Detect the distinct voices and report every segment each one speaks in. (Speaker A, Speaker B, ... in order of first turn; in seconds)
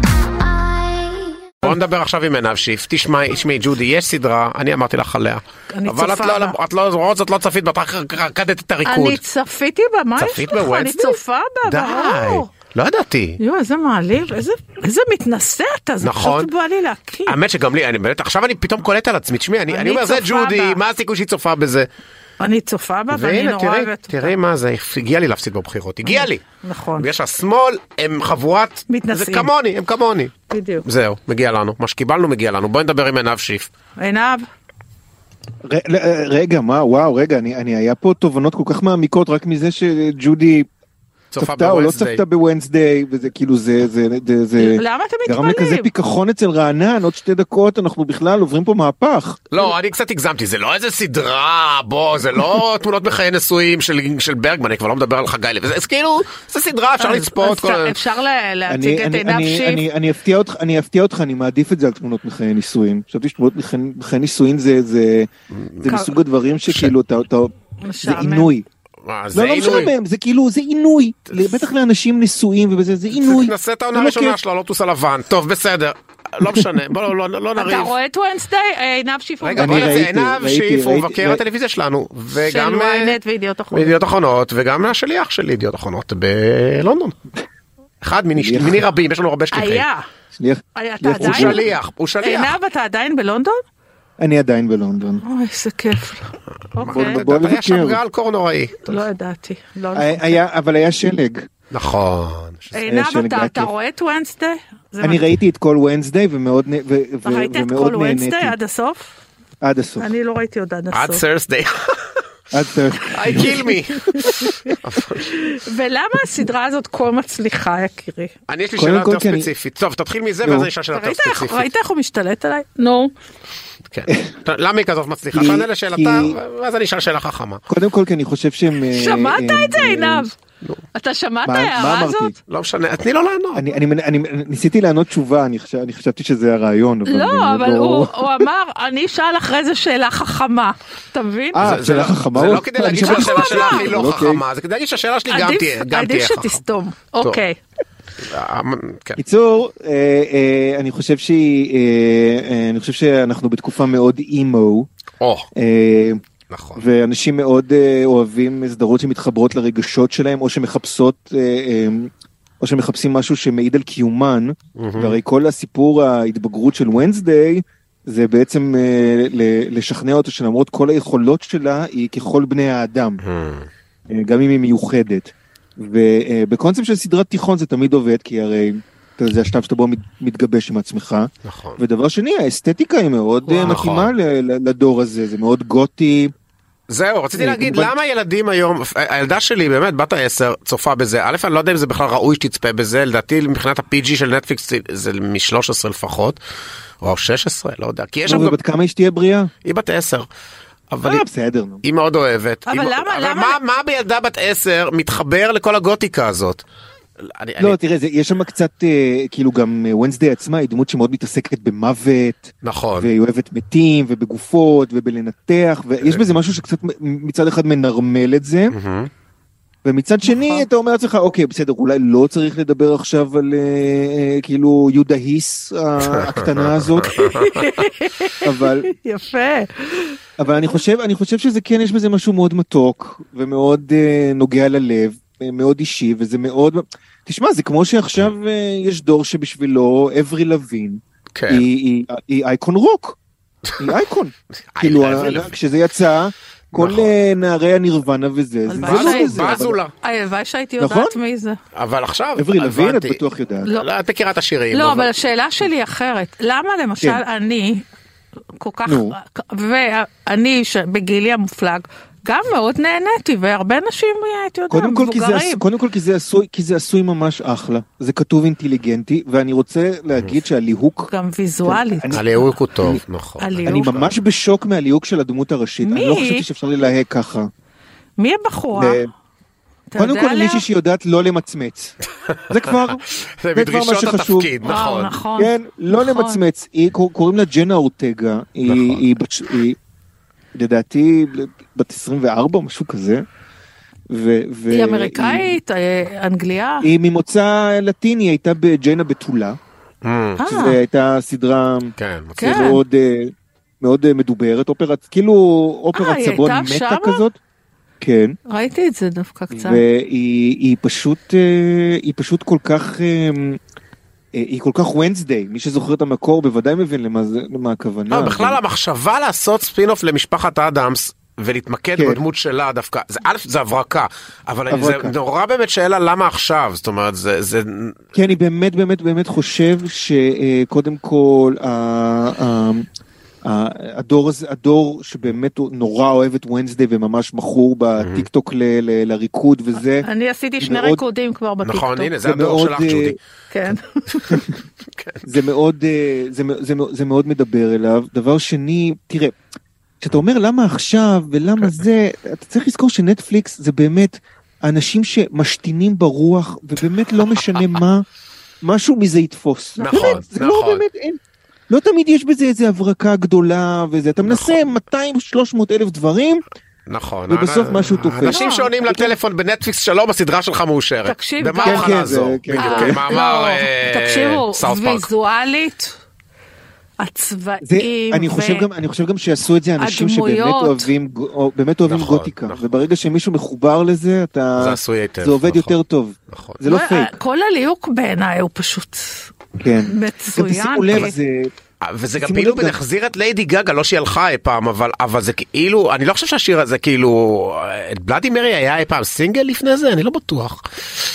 Speaker A: 1.6-9.2, 10.2-13.4, 16.0-16.5, 17.3-21.9, 23.1-26.4, 27.0-33.7, 41.3-42.2, 49.5-58.0, 65.6-66.0, 66.7-66.9, 69.0-69.9, 71.3-71.7, 73.1-77.9, 79.4-83.2, 83.7-87.2, 88.0-89.8, 91.2-92.6, 96.8-99.1, 101.7-102.8, 110.9-112.2, 113.1-115.3, 118.5-121.7, 123.9-127.6, 132.5-133.7, 141.6-146.6, 148.3-149.2, 155.2-155.5, 156.5-156.8, 164.8-165.2, 173.2-173.7, 181.4-181.8, 183.6-184.1, 186.9-196.4, 197.0-198.6, 199.7-200.3, 200.9-201.3, 201.8-206.6, 207.3-207.8, 212.6-213.1, 216.0-216.3, 218.7-219.1, 226.1-227.9, 241.3-241.7, 244.7-245.6, 246.7-247.1, 248.8-249.9, 251.8-255.1, 272.1-274.1, 282.4-285.2, 288.7-289.0, 300.0-300.4, 302.0-302.6, 318.1-328.1, 338.0-338.3, 341.6-343.2, 344.9-345.3, 357.4-357.8, 359.8-360.8, 364.2-364.6, 366.9-375.1, 381.9-382.7, 384.6-385.8, 386.3-386.6, 391.8-400.9
Speaker B: 5.7-6.6, 8.8-12.5, 13.4-17.4, 19.7-20.8, 22.4-24.4, 26.0-27.1, 28.9-29.5, 30.5-30.9, 34.0-34.5, 44.6-45.9, 57.0-59.9, 65.9-66.2, 67.8-68.6, 77.6-80.0, 82.4-84.0, 89.5-90.1, 90.8-91.7, 92.2-93.6, 95.2-97.2, 98.9-100.4, 102.7-105.3, 107.2-109.1, 110.0-111.2, 115.2-118.3, 120.9-123.1, 128.8-130.3, 130.9-132.3, 137.1-141.7, 143.0-143.9, 145.3-147.6, 202.7-203.6, 220.2-220.7, 227.1-230.2, 248.7-251.6, 254.7-257.9, 258.6-265.6, 271.1-272.4, 273.4-273.9, 275.8-276.5, 278.2-279.0, 279.9-280.7, 284.6-286.4, 294.7-296.9, 300.4-300.8, 302.4-302.8, 305.9-307.2, 308.5-309.8, 339.8-342.2, 343.5-344.4, 359.8-360.2, 368.2-368.7, 371.1-372.0, 372.6-376.0, 377.0-378.7, 379.8-380.9, 386.6-389.3, 389.8-391.1
Speaker C: 35.6-40.7, 41.4-49.6, 58.7-65.3, 65.8-68.7, 69.3-74.4, 76.4-76.7, 79.6-81.4, 88.4-88.8, 90.3-91.7, 94.2-95.2, 96.9-98.0, 99.9-101.5, 102.8-103.7, 105.0-108.6, 109.6-110.1, 112.5-114.7, 118.8-119.5, 120.4-120.7, 124.1-124.4, 125.3-126.4, 127.7-130.3, 131.4-132.3, 133.6-138.5, 141.5-144.4, 149.2-154.9, 155.6-156.2, 156.8-162.1, 162.6-173.2, 174.1-186.3, 187.3-187.9, 198.3-199.5, 201.0-201.8, 207.6-218.8, 219.8-227.1, 228.4-228.9, 230.4-243.2, 243.8-249.8, 250.8-251.2, 252.4-253.8, 258.9-259.2, 264.7-271.1, 271.6-273.0, 273.6-277.5, 278.7-279.1, 280.0-282.0, 282.5-283.0, 283.5-284.5, 285.4-289.8, 290.5-293.2, 294.1-295.6, 296.8-299.6, 300.4-307.4, 308.0-308.4, 309.5-313.6, 314.4-318.6, 321.9-322.2, 324.7-325.1, 328.1-332.9, 333.4-340.1, 340.6-341.0, 342.2-343.2, 344.3-344.6, 345.2-349.4, 350.0-358.1, 358.6-361.2, 361.7-366.4, 367.3-369.2, 371.6-373.2, 377.6-387.2, 389.6-391.5, 392.2-392.8